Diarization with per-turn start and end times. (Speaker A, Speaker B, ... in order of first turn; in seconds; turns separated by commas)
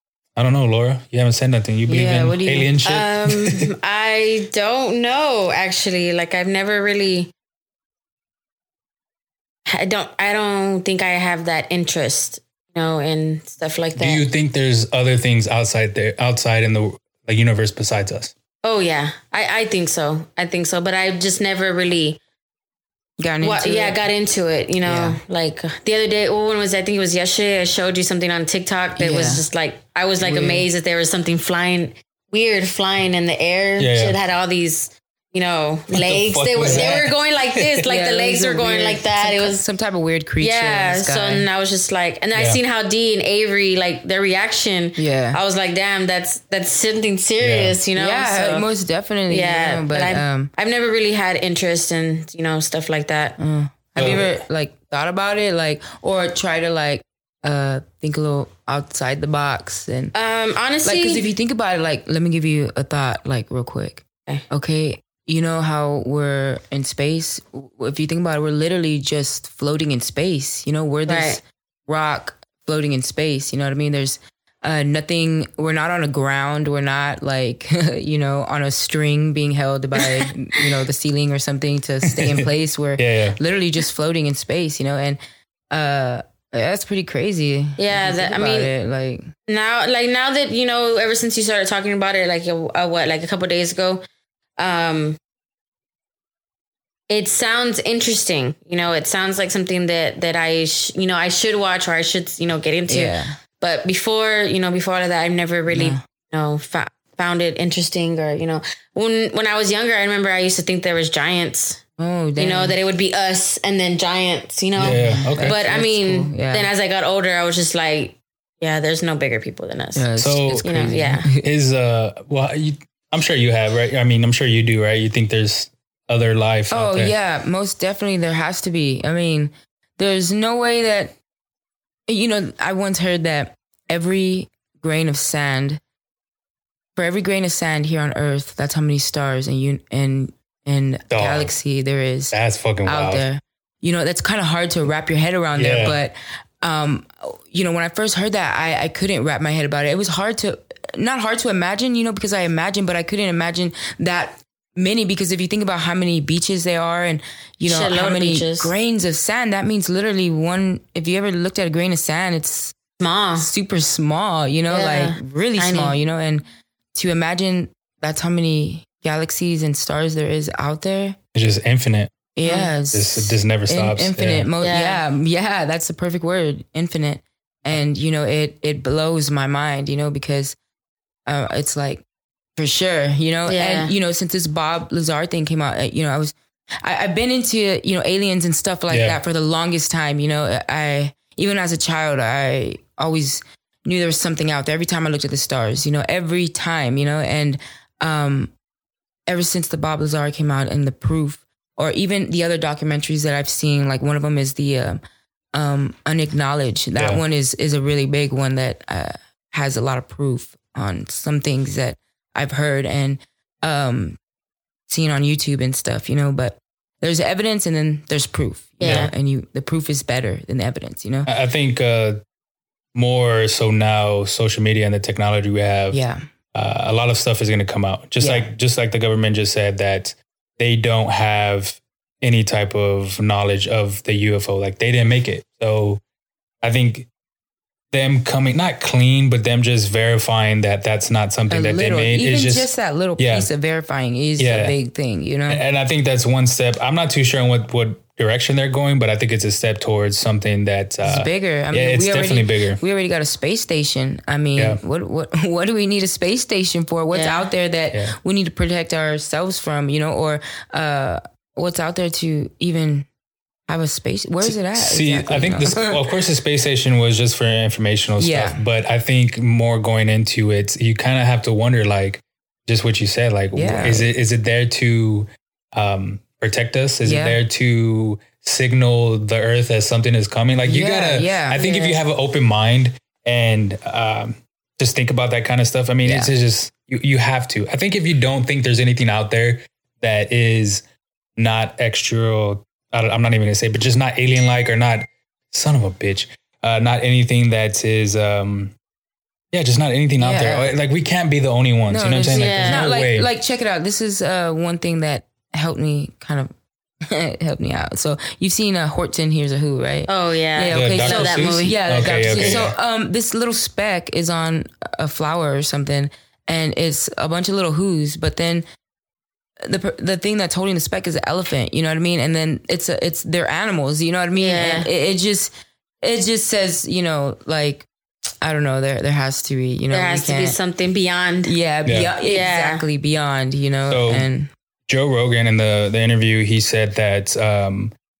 Speaker A: 0.3-3.7, Speaker B: 1.9-2.7, Speaker C: 2.8-7.3, Speaker C: 9.7-14.2, Speaker A: 14.0-18.3, Speaker C: 18.6-22.2, Speaker B: 23.2-24.0, Speaker C: 23.4-39.6, Speaker B: 24.8-25.2, Speaker B: 29.0-29.4, Speaker B: 30.2-30.6, Speaker A: 33.8-34.1, Speaker A: 35.9-37.9, Speaker B: 36.6-37.0, Speaker B: 37.8-41.5, Speaker C: 40.4-48.7, Speaker A: 42.3-42.6, Speaker B: 45.0-45.4, Speaker A: 47.4-47.8, Speaker B: 48.0-50.5, Speaker C: 49.3-53.4, Speaker B: 53.4-60.1, Speaker A: 54.0-54.4, Speaker C: 60.1-61.3, Speaker B: 60.8-85.2, Speaker C: 71.1-71.4, Speaker C: 80.0-80.3, Speaker A: 82.1-82.5, Speaker A: 83.0-83.4, Speaker B: 85.7-89.3, Speaker C: 87.8-88.7, Speaker C: 89.5-94.0, Speaker C: 94.6-95.2, Speaker C: 97.1-111.8, Speaker B: 102.9-103.3, Speaker B: 105.7-106.0, Speaker B: 112.0-112.8, Speaker C: 112.4-120.1, Speaker A: 114.8-115.6, Speaker B: 114.8-116.7, Speaker B: 120.0-121.4, Speaker A: 120.2-127.1, Speaker C: 120.6-121.3, Speaker B: 126.7-131.1, Speaker B: 132.1-135.8, Speaker B: 136.9-162.7, Speaker A: 141.1-141.5, Speaker A: 142.3-143.2, Speaker A: 145.6-146.0, Speaker C: 157.7-158.7, Speaker C: 163.0-163.5, Speaker B: 163.4-171.2, Speaker C: 164.7-165.9, Speaker A: 171.3-172.2, Speaker B: 172.3-180.6, Speaker C: 172.4-172.7, Speaker A: 172.9-174.5, Speaker C: 174.6-175.0, Speaker B: 181.2-182.0, Speaker B: 182.6-198.5, Speaker C: 183.5-183.9, Speaker A: 188.9-189.2, Speaker B: 199.3-205.0, Speaker B: 205.5-214.2, Speaker A: 206.9-207.2, Speaker B: 214.9-221.3, Speaker C: 218.8-219.1, Speaker A: 218.8-219.1, Speaker A: 221.3-222.2, Speaker A: 222.9-226.0, Speaker B: 225.9-226.2, Speaker A: 226.5-236.0, Speaker B: 228.2-228.5, Speaker A: 236.6-237.1, Speaker A: 237.9-243.5, Speaker B: 241.5-245.6, Speaker A: 244.4-244.7, Speaker A: 245.5-252.8, Speaker B: 251.0-263.1, Speaker C: 257.1-257.5, Speaker B: 263.7-266.0, Speaker A: 264.4-290.8, Speaker B: 268.2-268.6, Speaker B: 273.5-274.1, Speaker B: 277.0-277.4, Speaker B: 280.6-281.9, Speaker B: 286.0-286.3, Speaker A: 291.4-298.7, Speaker A: 299.5-303.3, Speaker B: 300.2-300.7, Speaker B: 301.9-306.5, Speaker C: 302.3-302.9, Speaker B: 307.0-318.6, Speaker C: 310.1-312.6, Speaker A: 310.7-312.7, Speaker B: 319.6-325.5, Speaker C: 324.3-324.9, Speaker B: 326.0-327.9, Speaker B: 328.4-330.6, Speaker C: 329.9-331.5, Speaker B: 331.4-334.5, Speaker A: 331.9-332.1, Speaker C: 332.2-332.8, Speaker A: 333.9-334.3, Speaker A: 334.9-337.9